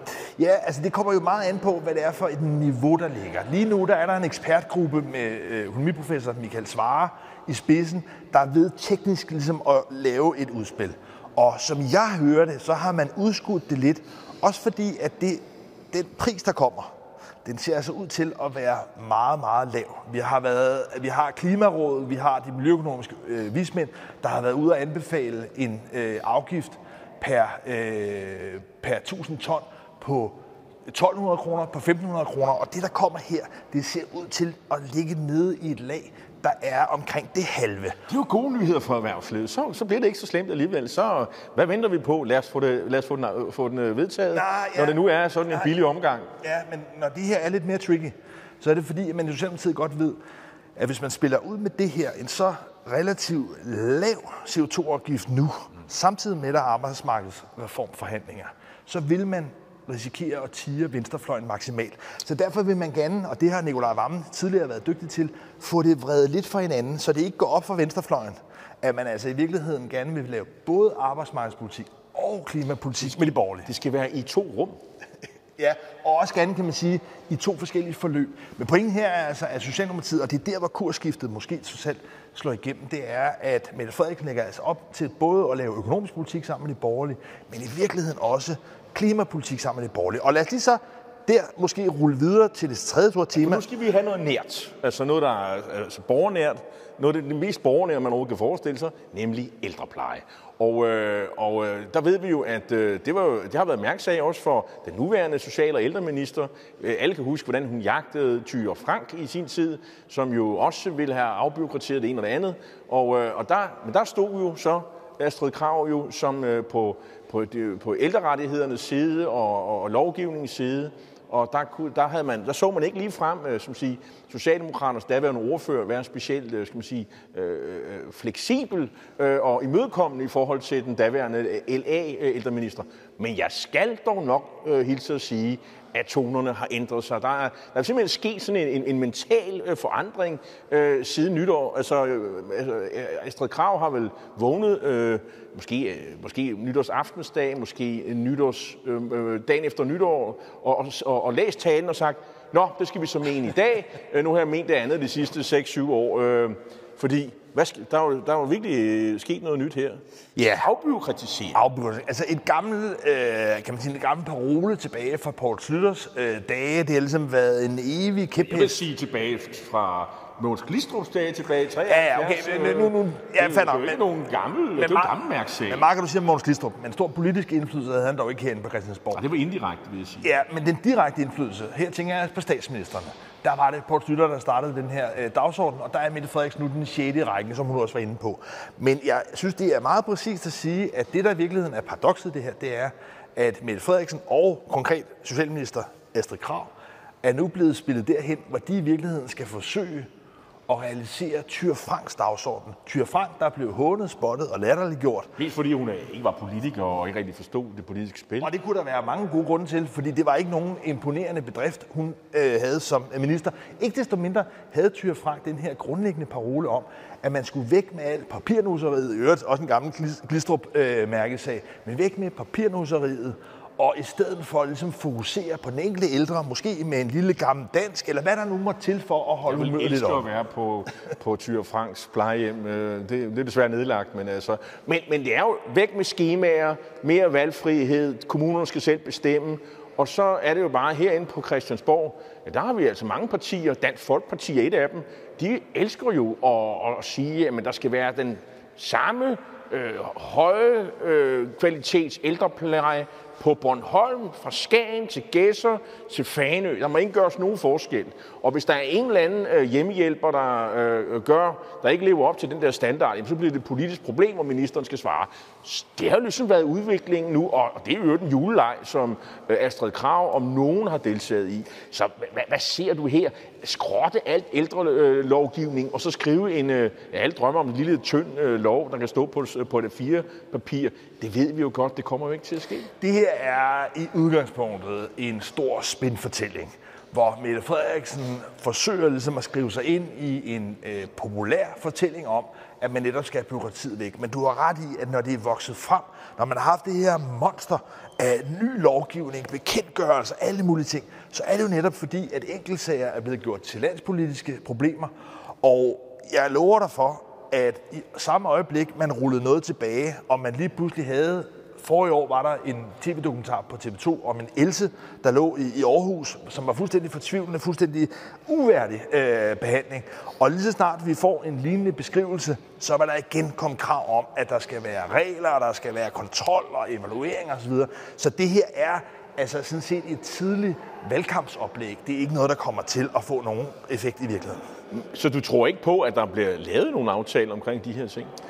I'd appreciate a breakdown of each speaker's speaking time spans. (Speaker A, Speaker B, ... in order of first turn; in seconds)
Speaker A: 0.4-16.9, 17.4-30.4, 30.9-38.0, 44.3-45.0, 46.4-50.2, 50.8-73.7, 75.6-93.6, 160.3-160.7, 161.5-168.8, 171.9-174.0, 174.8-175.2, 175.7-179.2, 180.2-196.7, 197.2-200.1, 200.7-205.3, 208.4-230.2, 283.0-334.6
Speaker B: 38.1-46.3, 73.0-74.8, 93.3-161.6, 168.4-175.9, 179.1-180.3, 205.4-208.5, 229.4-282.9, 334.9-338.3